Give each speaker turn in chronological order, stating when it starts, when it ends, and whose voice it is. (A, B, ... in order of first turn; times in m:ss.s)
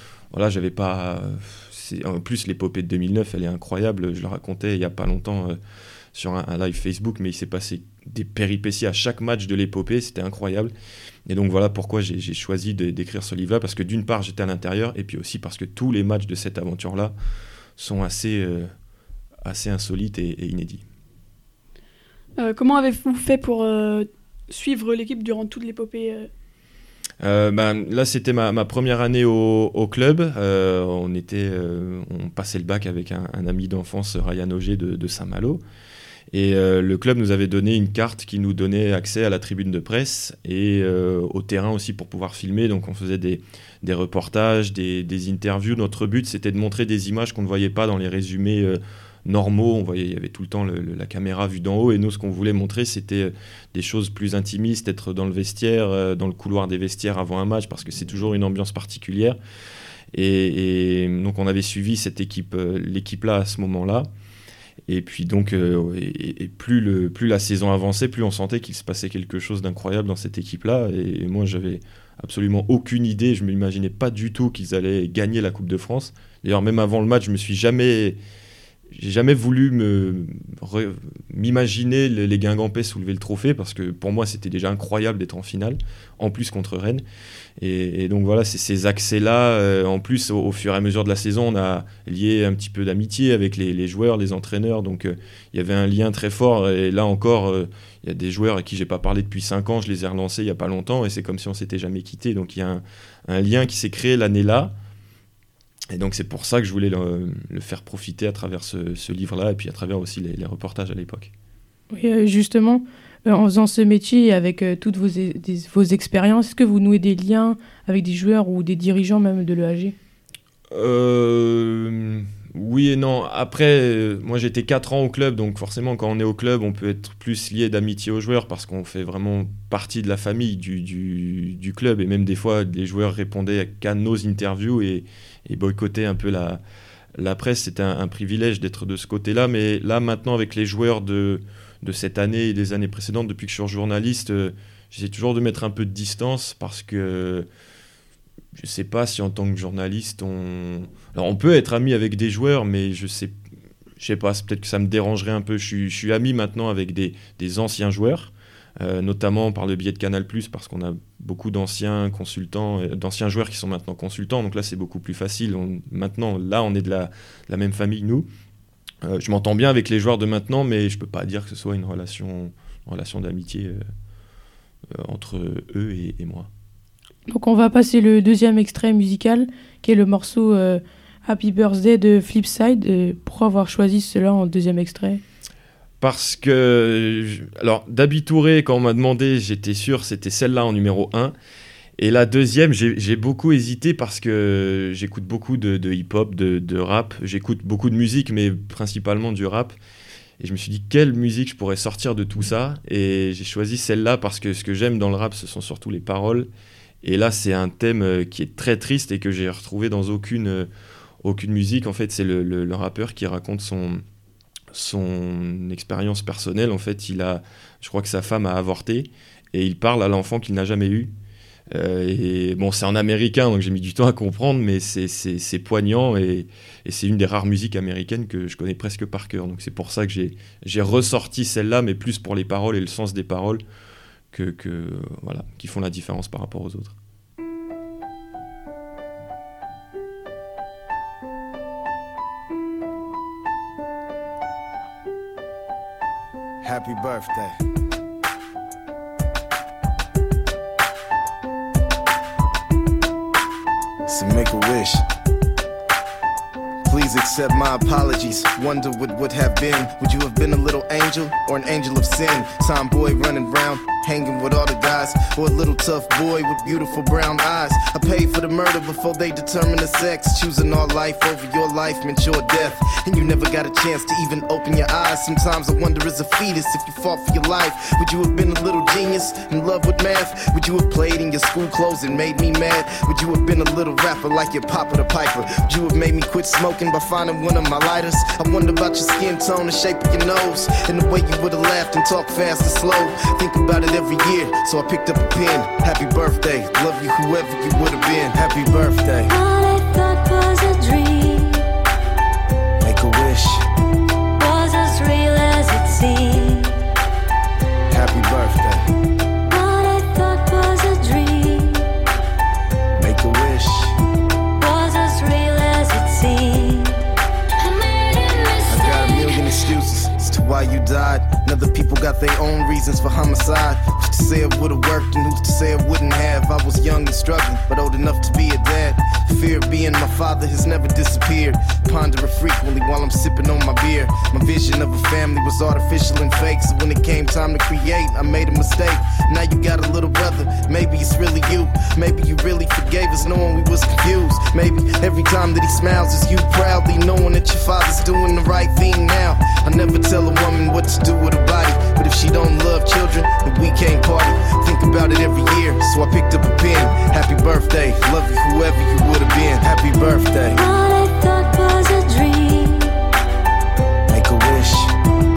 0:00.3-0:05.6 A
0:06.1-0:10.7 A
0:11.3-0:17.1 A
0:17.8-0:18.7 A
0:19.4-0:20.8 A
0:22.4-0:26.3 B
0:27.2-0:35.6 A
0:36.3-0:59.4 A
1:00.1-1:04.1 A
1:04.9-1:18.2 A
1:18.9-1:27.0 A
1:27.6-1:44.7 A
1:45.9-1:51.3 A
1:51.9-2:00.0 C
2:00.7-2:16.6 A
2:17.2-2:27.5 A
2:28.6-2:33.3 A
2:34.0-2:48.3 A
2:49.0-2:53.8 A
2:54.9-2:56.5 A
2:57.3-3:05.2 C
3:06.0-3:11.4 A
3:12.0-3:19.8 A
3:20.4-3:26.5 A
3:27.0-3:30.7 A
3:31.2-3:34.0 A
3:34.7-3:41.1 A
3:41.7-3:53.6 A
3:54.3-3:57.0 A
4:06.6-4:07.6 D
4:14.1-4:15.0 D
4:16.8-4:59.3 D
4:59.3-5:01.7 E
5:02.8-5:03.7 D
5:04.4-5:06.8 E
5:07.9-5:08.9 D
5:09.5-5:11.9 E
5:13.0-5:14.0 D
5:14.6-5:17.0 E
5:17.6-5:19.5 E
5:18.7-6:00.6 D
6:00.5-6:03.0 E
6:04.1-6:05.0 D